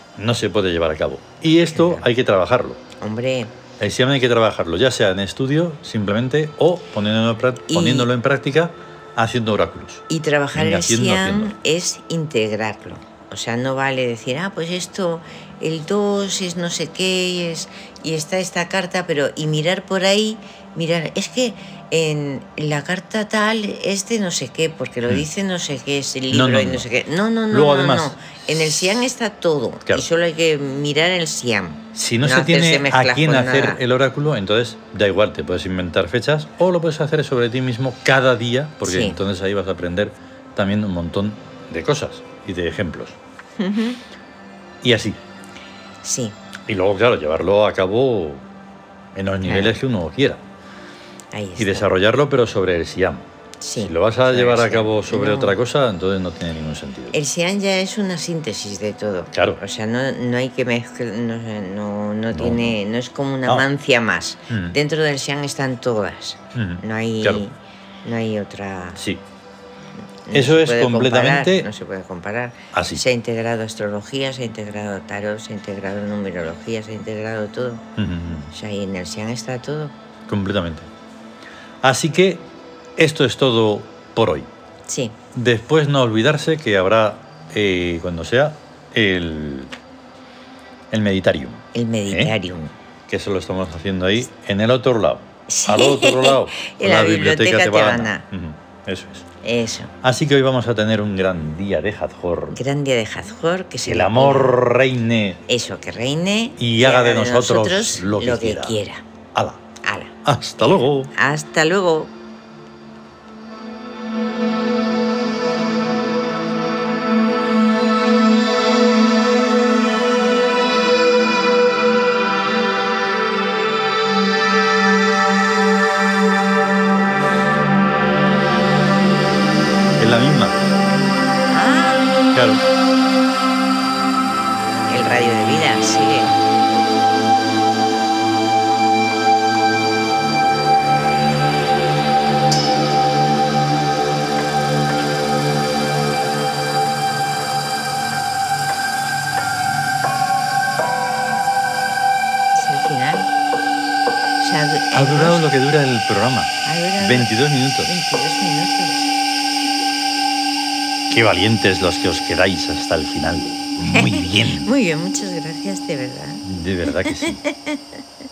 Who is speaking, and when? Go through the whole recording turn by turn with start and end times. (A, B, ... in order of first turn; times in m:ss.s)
0:00.2-0:02.8 A
0:01.7-0:02.0 B
0:03.0-0:03.5 B
0:03.8-0:11.5 A
0:07.7-0:08.1 B
0:10.1-0:33.8 B
0:26.3-0:26.8 A
0:27.5-0:28.2 A
0:31.9-0:43.2 A
0:38.8-0:39.2 B
0:43.6-0:44.0 B
0:44.8-0:45.2 A
0:46.0-0:46.4 B
0:46.7-0:48.4 A
0:49.1-0:50.4 A
0:49.4-0:49.8 B
0:51.3-0:51.9 B
0:51.6-0:53.2 A
0:53.6-0:55.6 B
0:53.8-0:57.1 A
0:57.1-1:09.0 B
0:59.3-0:59.6 A
1:02.3-1:02.8 A
1:04.5-1:04.8 A
1:06.5-1:07.4 A
1:09.0-1:09.2 A
1:10.2-1:17.8 B
1:10.3-1:11.7 A
1:12.7-1:13.0 A
1:18.0-1:18.5 A
1:18.5-1:19.9 B
1:20.3-1:20.9 A
1:21.8-1:22.4 A
1:23.0-1:24.5 A
1:24.9-1:25.1 B
1:25.3-1:29.7 A
1:30.9-1:32.4 A
1:31.7-1:32.7 B
1:33.1-1:39.2 A
1:35.5-1:38.2 B
1:39.4-1:39.9 B
1:40.0-1:42.6 A
1:42.5-1:44.6 B
1:43.8-1:45.4 A
1:45.5-1:49.0 B
1:46.6-1:48.8 A
1:49.3-1:49.6 A
1:49.8-1:50.1 B
1:50.2-1:51.1 A
1:51.1-1:52.1 B
2:10.0-2:10.8 A
2:11.5-2:12.2 B
2:12.3-2:12.6 A
2:14.9-2:16.4 B
2:32.5-2:33.3 B
2:34.4-2:35.5 B
2:34.9-2:37.9 A
2:36.6-2:39.1 B
2:41.1-2:44.7 A
2:43.8-2:48.0 B
2:46.4-2:47.4 A